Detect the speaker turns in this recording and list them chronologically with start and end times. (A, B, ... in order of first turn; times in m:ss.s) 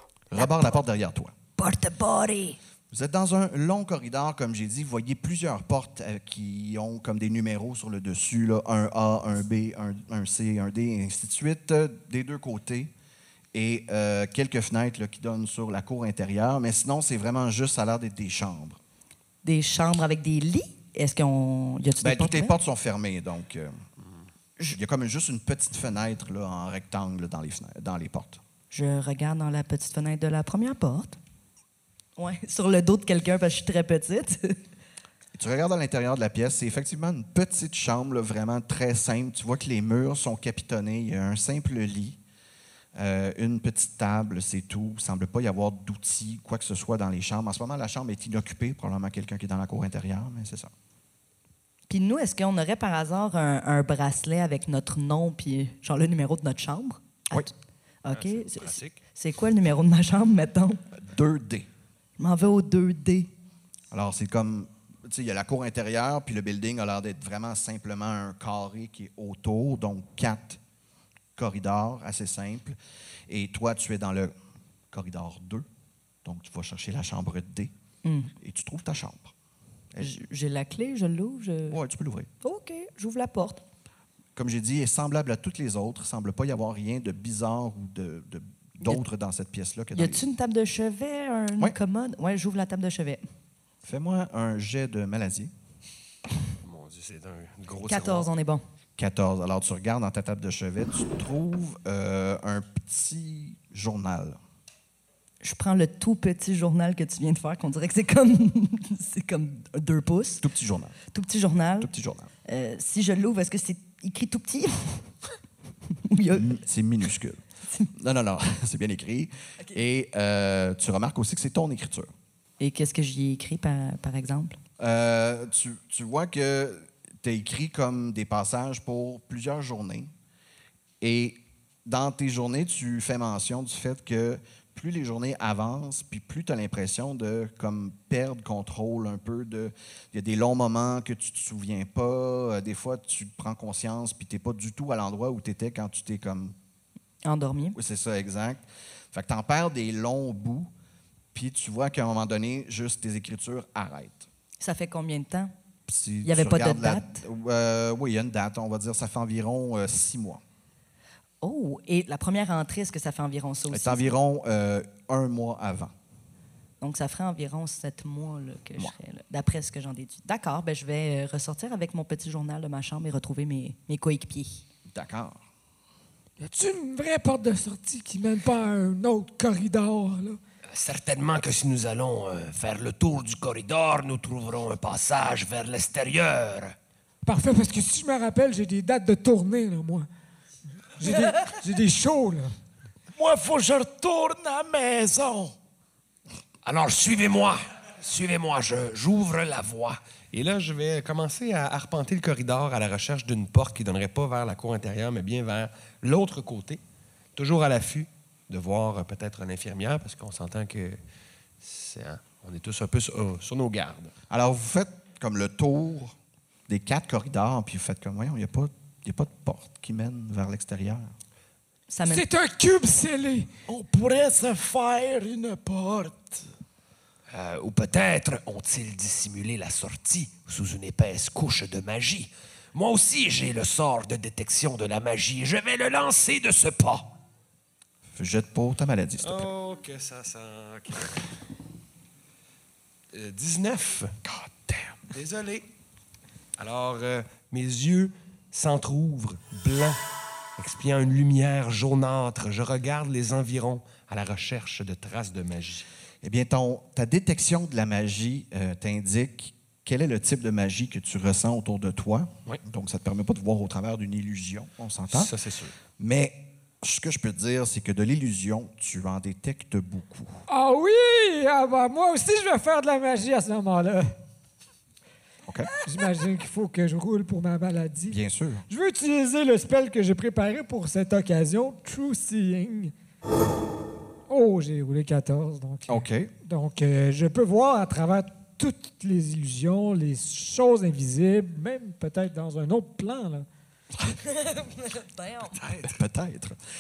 0:00.3-0:01.3 A
0:00.4-0:00.6 B
0:01.6-0:02.6 B
0:02.9-0:12.9 A
0:13.5-0:18.8 A
0:19.4-0:22.6 B
0:22.0-0:23.8 A
0:24.7-0:28.4 A
0:28.7-0:31.2 B
0:32.2-0:34.6 B
0:35.3-0:42.2 A
0:43.0-0:50.7 A
0:51.9-0:57.5 B
0:58.0-1:00.8 B
0:58.1-0:59.0 C
1:00.9-1:01.7 A
1:02.2-1:03.3 B
1:03.9-1:10.6 A
1:11.4-1:14.3 A
1:14.9-1:15.7 A
1:16.2-1:17.7 A
1:18.0-1:18.3 B
1:18.4-1:19.3 A
1:20.0-1:21.8 B
1:21.7-1:22.3 A
1:22.4-1:23.6 B
1:24.4-1:30.2 A
1:29.9-1:33.2 B
1:33.8-1:35.5 A
1:36.6-1:38.3 C
1:37.9-1:38.6 B
1:39.0-1:44.4 A
1:45.4-1:50.4 B
1:50.4-1:51.0 A
1:51.1-1:51.9 B
1:51.8-1:52.3 A
1:52.5-1:55.1 B
1:55.9-1:56.6 B
1:56.4-1:57.4 A
1:57.9-2:02.1 A
2:02.6-2:04.6 B
2:04.8-2:10.1 A
2:11.0-2:26.6 A
2:27.2-2:27.8 B
2:27.8-2:30.7 A
2:31.3-2:34.3 A
2:34.6-2:35.5 B
2:35.9-2:40.4 A
2:36.2-2:37.2 B
2:41.4-2:44.2 B
2:43.7-2:45.9 A
2:46.8-2:54.6 B
2:54.9-2:55.4 A
2:56.4-3:00.4 D
3:00.7-3:06.8 C
3:07.2-3:10.1 D
3:11.0-3:12.5 D
3:13.1-3:15.6 E
3:16.6-3:26.8 C
3:27.4-3:31.0 C
3:31.6-3:34.1 C
3:34.3-3:36.2 A
3:36.7-3:41.1 A
3:41.9-3:42.3 B
3:42.1-3:43.5 D
3:43.7-3:46.5 E
3:47.3-3:57.1 C
3:58.1-3:59.5 A
3:59.2-4:01.3 C
4:03.1-4:04.2 C
4:04.2-4:05.0 A
4:05.1-4:05.7 C
4:06.6-4:10.0 C
4:10.6-4:15.9 C
4:16.2-4:25.3 A
4:25.1-4:25.7 C
4:26.0-4:30.4 A
4:30.5-4:34.1 D
4:35.8-4:42.9 D
4:38.1-4:38.6 A
4:44.3-4:53.5 D
4:45.9-4:46.3 A
4:54.2-4:55.6 B
4:55.7-4:56.6 A